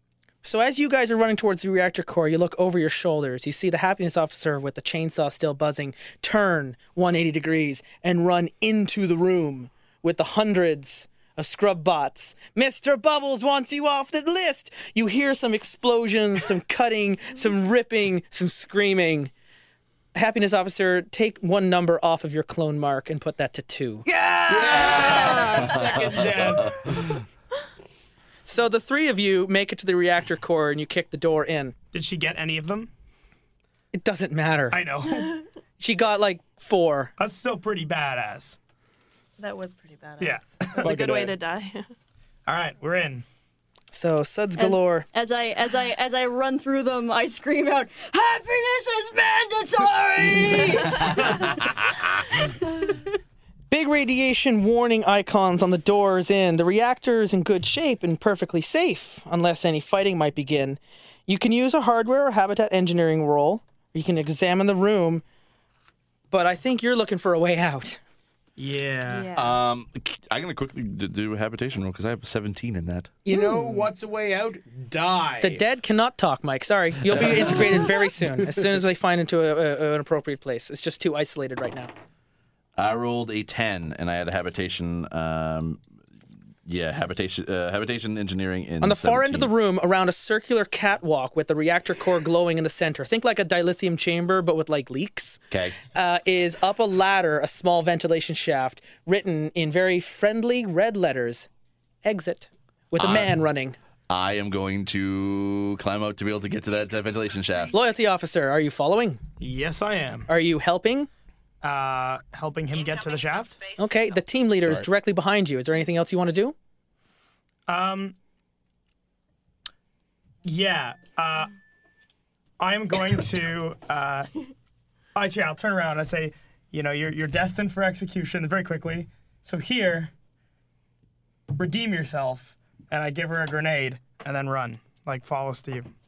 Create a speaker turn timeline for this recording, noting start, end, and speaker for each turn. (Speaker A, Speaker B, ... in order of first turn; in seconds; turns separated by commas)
Speaker A: 0.4-19.3, Speaker A: 20.1-24.1, Speaker B: 24.1-25.7, Speaker C: 24.5-27.0, Speaker D: 24.8-26.7, Speaker E: 24.8-27.1, Speaker A: 28.5-31.7, Speaker F: 31.9-32.9, Speaker A: 33.9-34.8, Speaker F: 34.7-35.4, Speaker A: 35.8-37.1, Speaker F: 37.2-38.6, Speaker D: 39.4-41.9, Speaker F: 40.2-41.1, Speaker C: 40.8-41.3, Speaker F: 42.5-43.2, Speaker A: 43.9-45.0, Speaker B: 44.6-51.4, Speaker A: 53.7-65.2, Speaker A: 66.3-68.0, Speaker F: 68.6-69.3, Speaker D: 69.1-69.6, Speaker E: 69.3-73.1, Speaker C: 73.2-75.6, Speaker A: 73.3-73.9, Speaker A: 75.4-81.9, Speaker E: 77.1-77.5, Speaker C: 77.3-77.8, Speaker E: 82.8-85.8, Speaker E: 86.7-89.5, Speaker A: 88.8-101.5, Speaker E: 95.5-95.8, Speaker A: 102.0-103.8, Speaker E: 103.0-103.3, Speaker E: 104.1-107.7, Speaker A: 107.7-109.2, Speaker F: 109.4-110.3, Speaker A: 110.3-111.1, Speaker F: 111.6-113.6, Speaker A: 113.8-116.5, Speaker F: 117.7-118.1, Speaker F: 120.4-121.5, Speaker F: 122.6-124.3, Speaker F: 125.1-130.1, Speaker F: 131.6-135.9